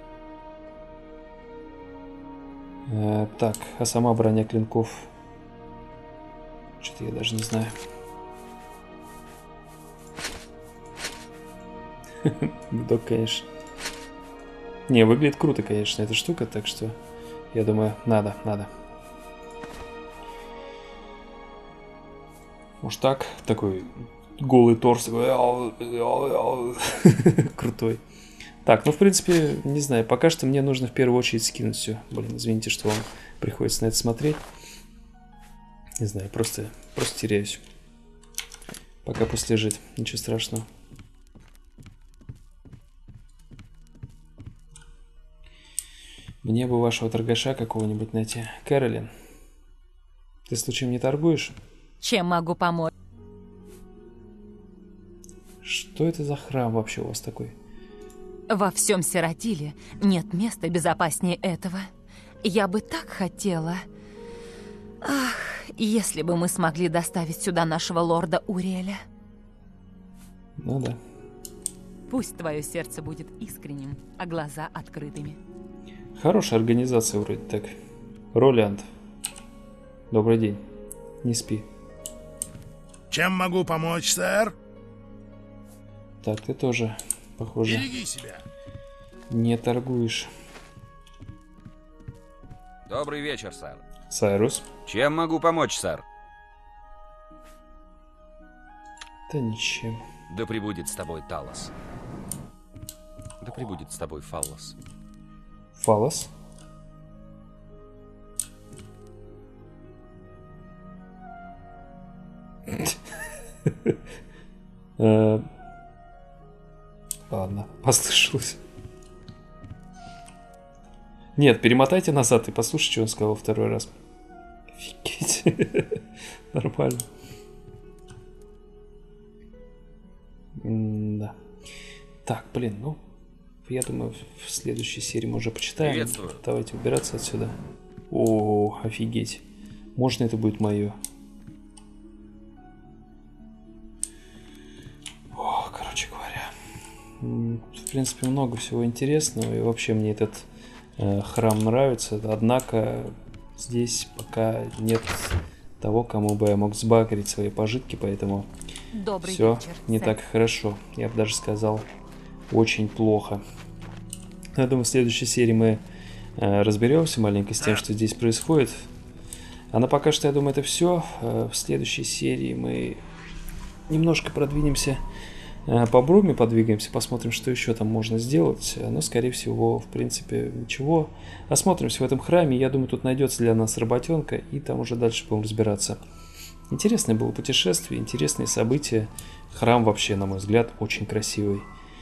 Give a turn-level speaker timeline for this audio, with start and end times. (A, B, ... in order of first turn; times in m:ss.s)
0:02.9-0:05.1 A
0:06.8-0:07.7 A
0:12.2-0:13.5 A
0:14.9-0:17.0 A
0:17.5-0:18.7 A
0:22.8-0:28.0 A
0:28.6-0:34.4 A
0:36.0-0:37.6 A
0:39.0-0:40.7 A
0:46.4-0:49.1 A
0:50.5-0:51.5 A
0:52.0-0:52.9 B
0:55.6-0:57.6 A
0:58.5-1:01.9 B
1:02.4-1:03.8 B
1:05.0-1:09.0 B
1:10.6-1:11.0 A
1:12.1-1:15.4 B
1:16.2-1:17.7 A
1:18.3-1:18.8 A
1:20.1-1:20.6 A
1:21.2-1:21.7 A
1:23.1-1:24.6 C
1:26.2-1:27.9 A
1:27.6-1:28.4 C
1:29.3-1:30.3 A
1:32.9-1:33.8 D
1:34.1-1:34.7 A
1:34.9-1:36.0 D
1:39.3-1:40.0 A
1:40.3-1:41.7 D
1:43.4-1:44.8 D
1:45.8-1:46.3 A
1:53.7-1:54.0 A
1:55.0-1:55.5 A
1:57.3-1:58.6 A
2:01.4-2:03.9 A
2:04.8-2:06.0 A
2:06.5-2:07.1 A
2:10.6-2:11.4 A
2:12.2-2:13.0 A
2:13.6-2:17.6 A
2:15.8-2:16.4 D
2:18.1-2:19.4 A
2:20.0-2:21.0 A
2:25.3-2:26.5 A
2:27.2-2:38.5 A
2:38.9-2:40.2 B
2:39.2-2:41.9 A
2:42.5-2:43.4 A
2:44.6-2:45.8 A
2:46.4-2:48.9 A
2:49.7-2:53.0 A
2:53.9-2:55.0 A
2:55.7-3:06.0 A
3:06.7-3:11.7 A